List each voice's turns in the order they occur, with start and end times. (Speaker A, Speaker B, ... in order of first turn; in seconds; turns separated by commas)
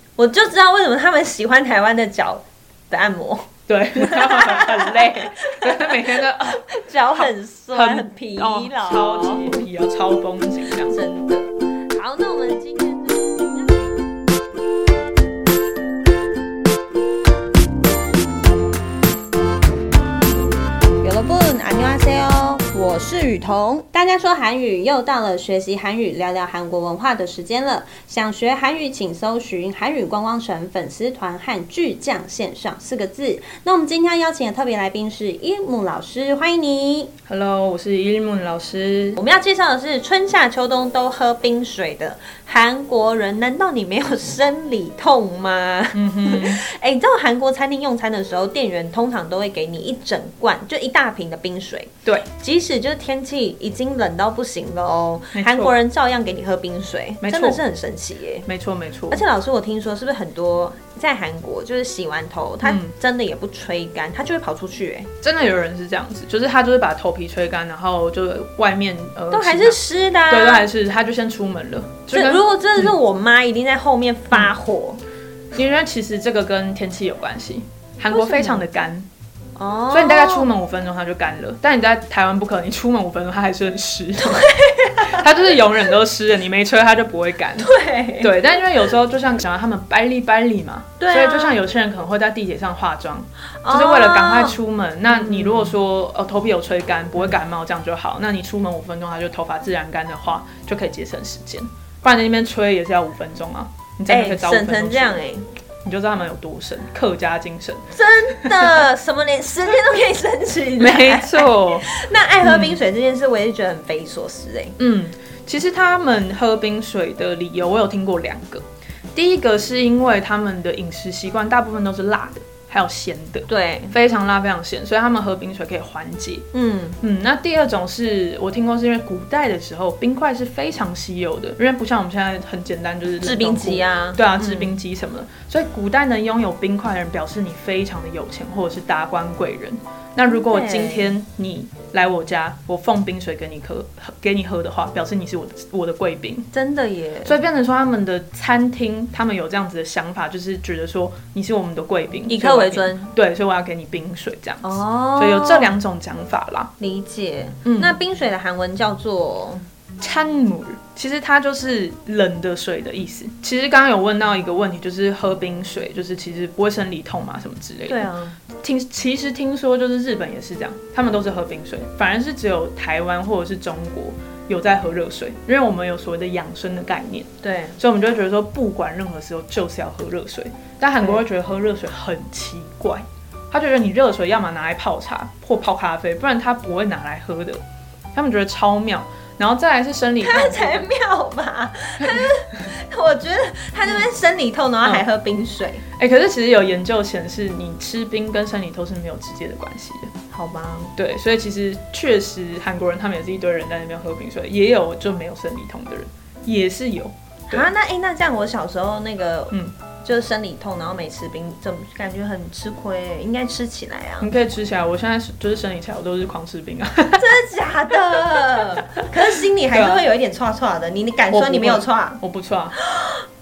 Speaker A: 0.2-9.6, Speaker B: 3.7-11.0, Speaker A: 10.9-13.9, Speaker A: 21.0-37.1, Speaker B: 37.3-39.2, Speaker A: 39.2-58.5, Speaker B: 45.9-46.6, Speaker B: 55.3-55.8, Speaker B: 57.2-57.6, Speaker B: 58.5-59.2, Speaker A: 59.1-65.1, Speaker B: 62.6-62.9, Speaker B: 65.2-72.9, Speaker A: 69.3-70.7, Speaker A: 72.1-75.0, Speaker B: 75.5-79.1, Speaker A: 78.1-78.6, Speaker A: 79.6-80.5, Speaker B: 79.9-87.7, Speaker A: 84.3-85.2, Speaker A: 87.6-88.3, Speaker B: 88.2-105.2, Speaker A: 91.0-91.6, Speaker A: 93.6-95.7, Speaker A: 104.1-105.5, Speaker B: 105.8-108.8, Speaker A: 107.9-114.8, Speaker B: 110.8-111.9, Speaker B: 112.4-112.8, Speaker B: 114.8-118.6, Speaker B: 119.2-126.5, Speaker A: 123.5-123.9, Speaker A: 126.5-127.0, Speaker B: 127.0-146.5, Speaker A: 133.2-134.7, Speaker A: 140.3-141.2, Speaker A: 146.5-147.4, Speaker B: 147.2-156.7, Speaker A: 152.3-153.1, Speaker A: 154.6-155.8, Speaker A: 156.8-159.6, Speaker B: 157.7-157.9, Speaker B: 160.0-187.6, Speaker A: 167.9-168.4, Speaker A: 177.4-177.8, Speaker B: 188.1-190.9, Speaker A: 190.2-195.8, Speaker B: 196.0-200.1, Speaker A: 200.3-200.9, Speaker B: 201.0-207.7, Speaker A: 207.5-214.3, Speaker B: 214.2-217.2, Speaker A: 217.2-222.2, Speaker B: 219.7-220.1, Speaker B: 221.3-222.8, Speaker A: 222.8-223.2